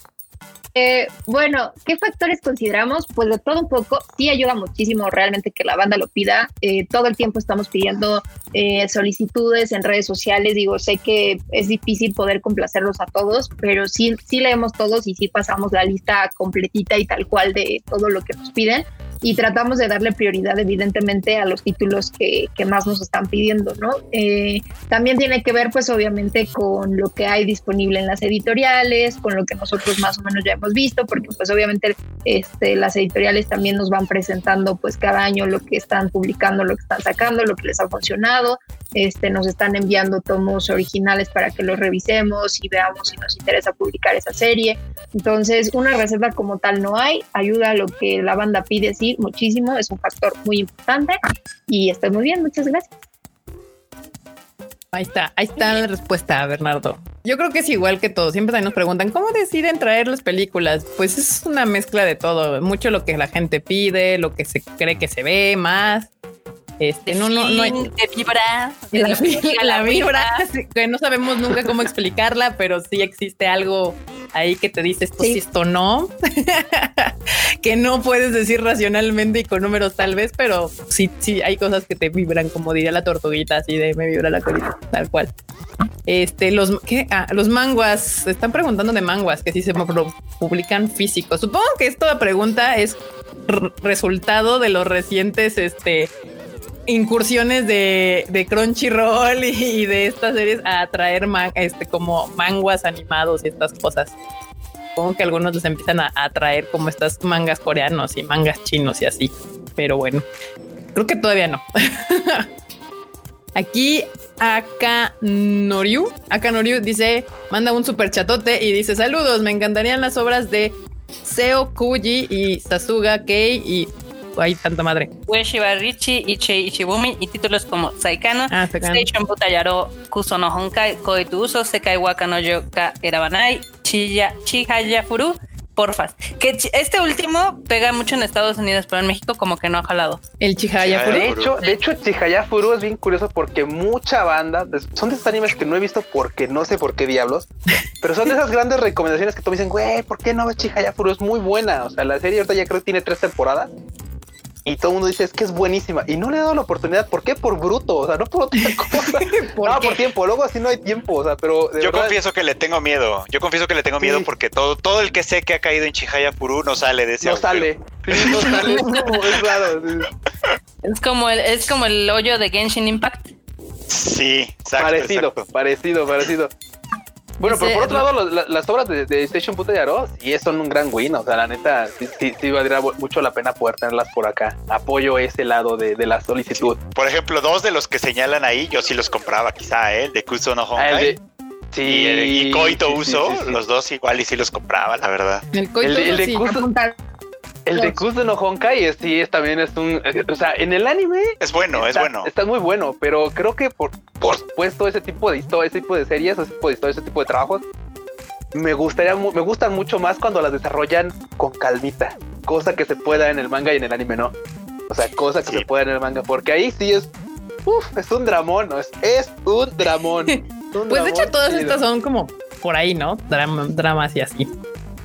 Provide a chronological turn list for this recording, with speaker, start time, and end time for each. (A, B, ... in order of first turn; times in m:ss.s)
0:00.8-0:52.9 A
0:54.9-1:06.1 B
1:06.8-1:07.8 B
1:07.1-1:10.4 C
1:08.9-1:25.3 B
1:26.1-1:36.1 B
1:36.9-1:44.1 B
1:45.0-1:50.2 B
1:51.0-1:52.5 B
1:53.6-2:05.1 B
2:05.3-2:20.2 C
2:08.5-2:09.1 B
2:20.4-2:21.3 B
2:20.8-2:21.5 D
2:21.1-2:27.5 E
2:28.0-2:33.7 E
2:34.6-2:42.2 E
2:38.6-2:40.0 B
2:41.8-2:48.6 D
2:44.0-2:44.3 E
2:47.2-2:50.1 E
2:48.3-2:49.1 B
2:50.8-2:53.3 C
2:53.9-2:55.5 D
2:54.8-2:56.5 E
2:57.4-3:06.8 E
2:57.4-2:58.1 B
3:07.0-3:11.2 D
3:10.8-3:11.2 E
3:11.7-3:13.6 E
3:11.8-3:15.4 D
3:15.5-3:16.4 B
3:15.8-3:16.7 E
3:16.0-3:17.0 A
3:17.7-3:27.6 E
3:17.8-3:18.0 A
3:21.4-3:22.3 D
3:28.5-3:34.3 E
3:34.9-3:37.1 E
3:37.7-3:41.8 E
3:40.3-3:44.5 B